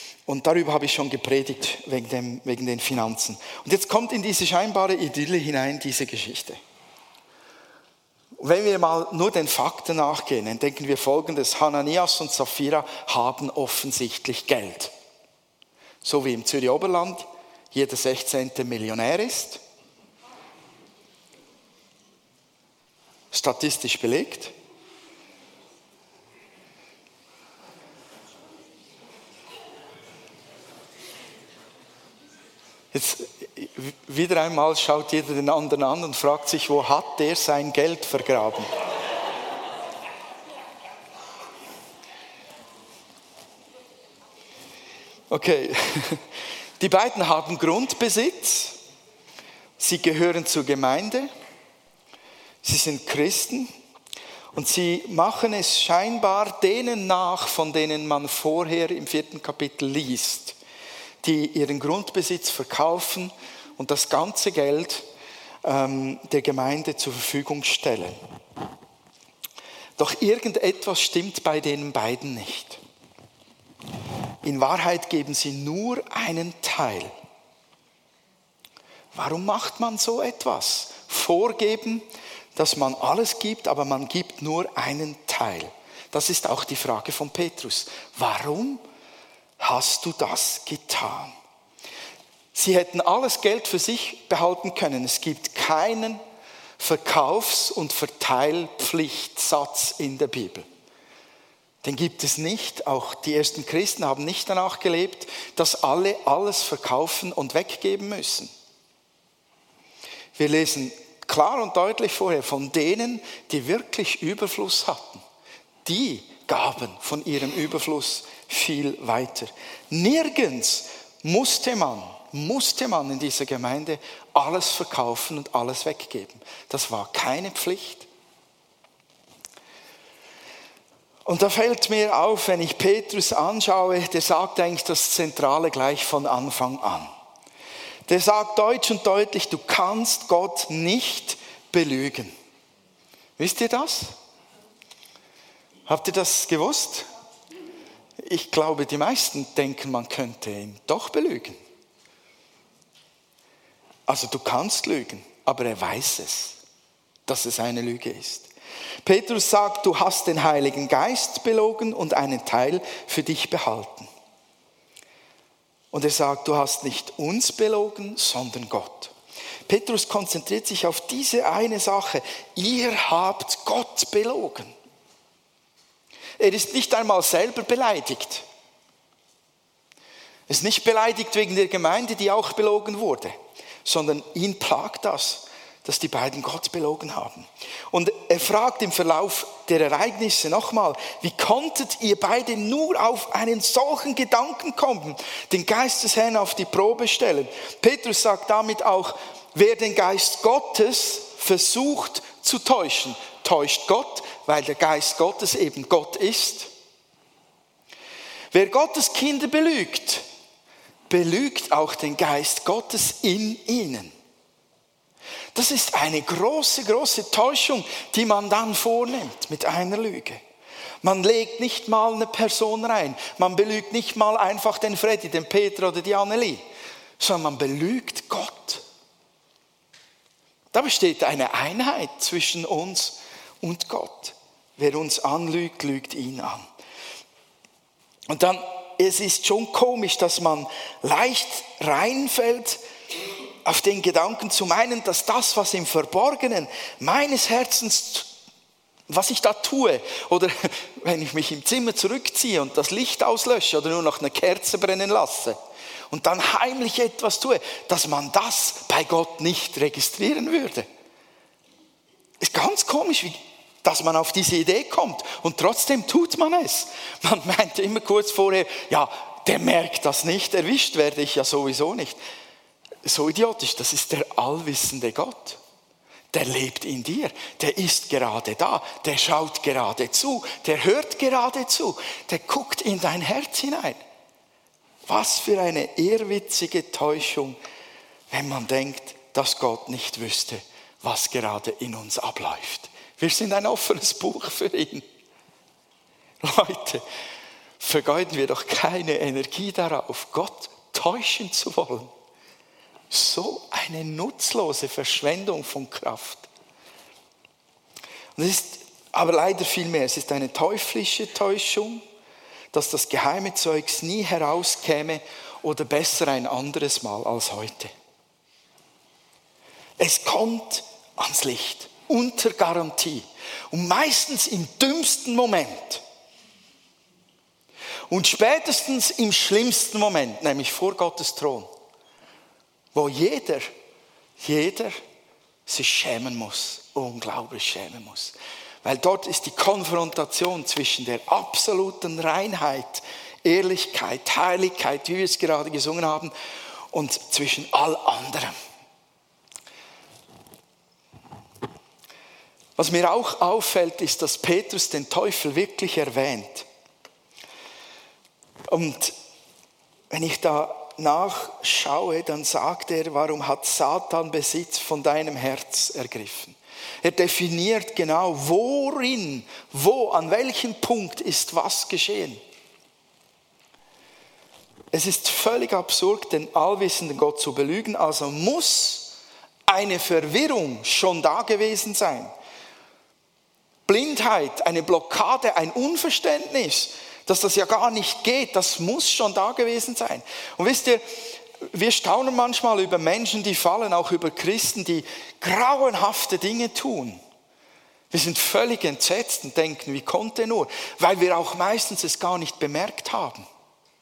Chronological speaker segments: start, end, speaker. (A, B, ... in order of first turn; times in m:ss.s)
0:00.3-0:06.6 A
0:08.4-0:14.9 A
0:16.0-0:19.6 A
0:23.3-0:24.5 A
0:32.9-0:38.7 A
0:45.3-0:46.2 A
0:46.8-0:48.8 A
0:49.8-0:51.3 A
0:52.6-0:53.7 A
0:54.5-1:00.6 A
1:01.2-1:05.0 A
1:05.6-1:08.2 A
1:10.0-1:12.8 A
1:14.4-1:17.1 A
1:19.1-1:28.8 A
1:29.6-1:31.3 A
1:32.5-1:36.2 A
1:36.8-1:40.7 A
1:41.8-1:48.5 A
1:50.4-1:55.2 A
1:55.8-2:08.1 A
2:11.3-2:17.1 A
2:18.1-2:22.3 A
2:23.4-2:24.1 A
2:25.9-2:27.1 A
2:28.2-2:31.6 A
2:34.1-2:36.6 A
2:37.3-2:38.5 A
2:39.0-2:44.1 A
2:45.9-2:49.1 A
2:49.7-2:54.7 A
2:56.4-2:58.5 A
3:00.5-3:26.7 A
3:28.5-3:30.2 A
3:31.1-3:34.1 A
3:35.5-3:40.4 A
3:41.0-3:46.6 A
3:47.2-3:48.8 A
3:50.7-3:56.7 A
3:58.3-4:02.8 A
4:03.6-4:08.3 A
4:09.1-4:15.6 A
4:16.1-4:20.9 A
4:22.4-4:32.2 A
4:33.0-4:35.6 A
4:36.3-4:44.0 A
4:45.1-4:47.6 A
4:48.3-4:55.0 A
4:56.4-4:57.0 A
4:57.8-5:02.1 A
5:03.1-5:06.5 A
5:08.4-5:12.0 A
5:12.7-5:17.9 A
5:20.0-5:26.0 A
5:28.1-5:31.7 A
5:32.9-5:33.7 A
5:34.4-5:35.0 A
5:35.7-5:46.3 A
5:46.9-5:48.6 A
5:52.8-5:56.7 A
5:58.7-5:59.2 A
6:00.1-6:12.4 A
6:14.9-6:22.3 A
6:23.9-6:37.2 A
6:38.1-6:43.5 A